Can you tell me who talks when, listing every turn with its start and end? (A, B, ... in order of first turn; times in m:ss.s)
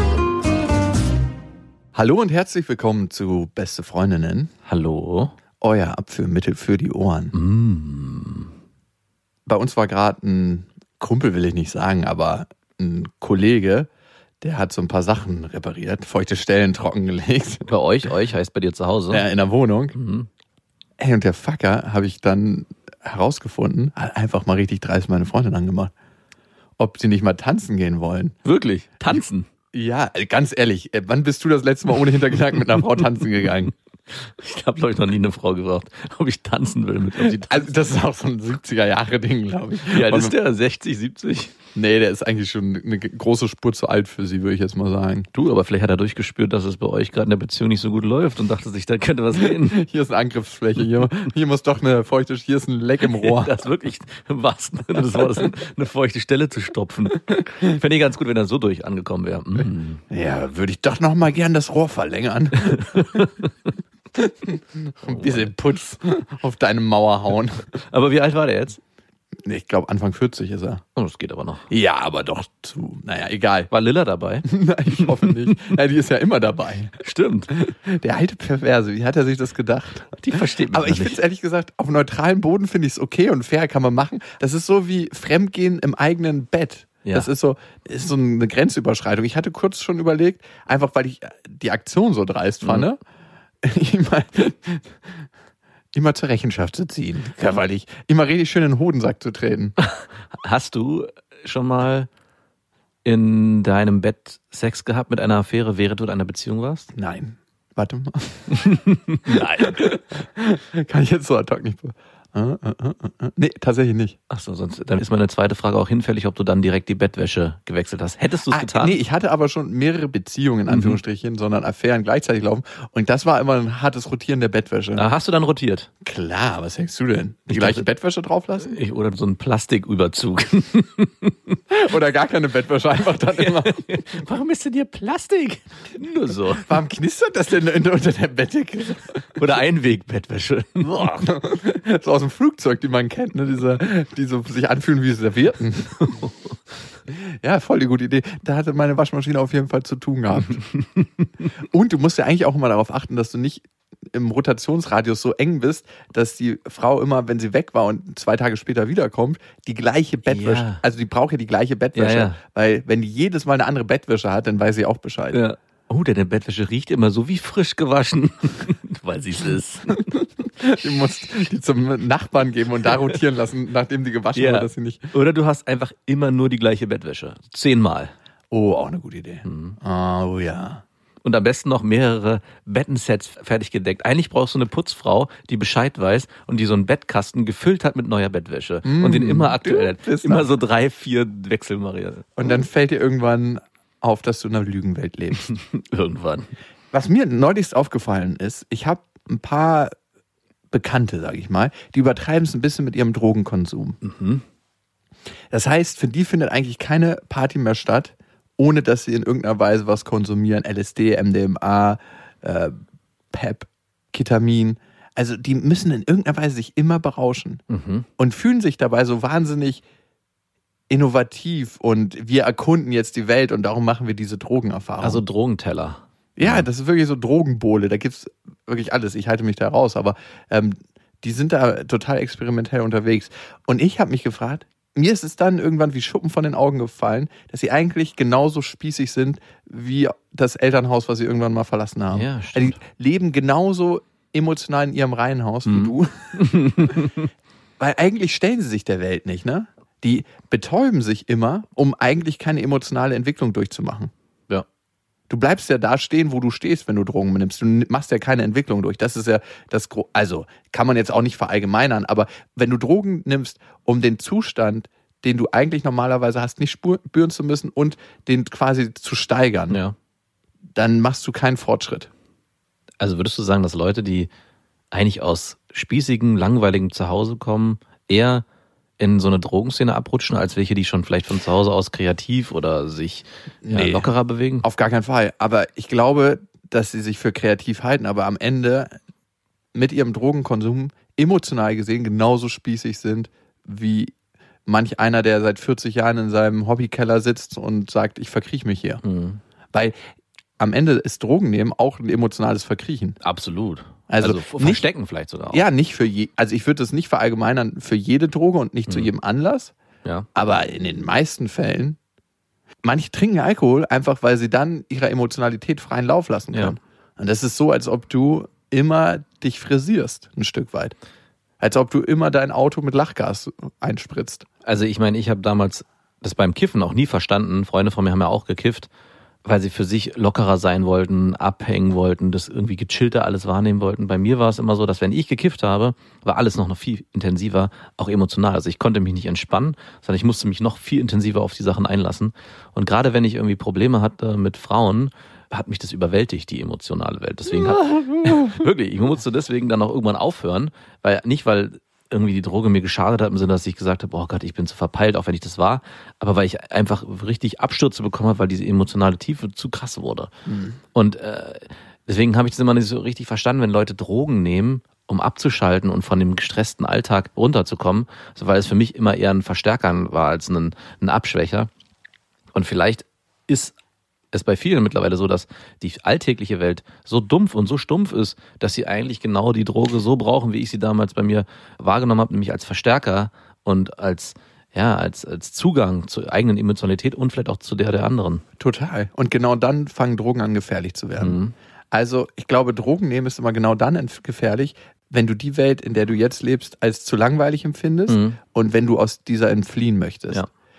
0:01.9-0:04.5 A
0:04.7-0:05.3 B
0:05.6-0:07.4 A
0:07.3-0:08.5 B
0:09.5-0:13.9 A
0:14.4-0:17.7 A
0:17.7-0:19.3 B
0:19.1-0:20.0 A
0:20.0-0:20.3 B
0:21.0-0:25.9 A
0:26.8-0:28.4 A
0:28.4-0:29.5 B
0:29.7-0:33.7 A
0:34.1-0:37.7 B
0:37.5-0:40.4 A
0:39.9-0:41.6 B
0:41.8-0:45.3 A
0:45.3-0:49.8 B
0:49.4-0:53.5 A
0:53.0-1:00.0 B
1:00.1-1:03.3 A
1:02.7-1:03.5 B
1:04.1-1:07.7 A
1:05.0-1:05.5 B
1:07.9-1:08.8 B
1:09.4-1:10.8 A
1:11.0-1:11.7 B
1:11.7-1:13.7 A
1:13.7-1:15.8 B
1:14.5-1:16.9 A
1:17.0-1:17.5 B
1:17.5-1:33.0 A
1:20.1-1:21.2 B
1:33.6-1:35.2 A
1:35.9-1:39.8 A
1:39.8-1:42.1 B
1:43.0-1:46.9 B
1:47.0-1:48.6 A
1:48.5-1:49.9 B
1:49.3-1:54.2 A
1:54.3-1:59.0 B
1:58.5-2:05.0 A
2:00.7-2:01.0 B
2:05.0-2:05.9 B
2:06.0-2:08.8 A
2:07.5-2:07.8 B
2:08.6-2:11.6 B
2:11.7-2:13.8 A
2:13.3-2:16.7 B
2:16.6-2:19.4 A
2:19.4-2:21.4 B
2:21.2-2:26.1 A
2:26.0-2:26.4 B
2:27.1-2:30.6 A
2:30.6-2:31.1 B
2:31.6-2:45.4 A
2:40.3-2:40.8 B
2:42.0-2:42.4 B
2:45.3-2:50.1 B
2:50.1-2:55.1 A
2:54.4-2:58.1 B
2:58.5-3:00.8 A
2:59.4-2:59.8 B
3:01.2-3:12.4 B
3:08.8-3:10.5 A
3:12.4-3:15.5 A
3:15.5-3:16.5 B
3:16.9-3:19.9 A
3:20.7-3:24.0 A
3:24.0-3:24.4 B
3:25.5-3:32.8 A
3:33.3-3:37.6 A
3:37.7-3:38.1 B
3:38.2-3:39.8 A
3:40.9-3:45.2 A
3:45.0-3:46.7 B
3:46.4-4:06.6 A
4:02.1-4:02.8 B
4:05.7-4:07.3 B
4:07.8-4:14.1 A
4:15.3-4:29.8 A
4:29.7-4:30.0 B
4:30.8-4:32.1 A
4:33.0-4:34.3 B
4:34.9-4:38.4 B
4:39.0-4:44.7 B
4:43.6-4:44.1 A
4:44.6-4:49.0 A
4:49.7-4:54.1 A
4:54.7-4:59.0 A
4:59.0-4:59.4 B
4:59.7-5:00.0 A
5:00.6-5:03.2 A
5:03.2-5:05.6 B
5:04.1-5:04.8 A
5:05.5-5:09.7 A
5:10.4-5:12.0 A
5:12.8-5:21.0 A
5:21.6-5:24.5 A
5:24.6-5:28.9 B
5:29.4-6:00.3 B
5:47.6-5:48.5 A
6:00.5-6:00.8 A
6:00.9-6:11.7 B
6:12.5-6:13.8 B
6:14.3-6:28.4 B
6:28.6-6:31.4 A
6:31.2-6:31.5 B
6:31.9-6:40.4 A
6:38.1-6:38.4 B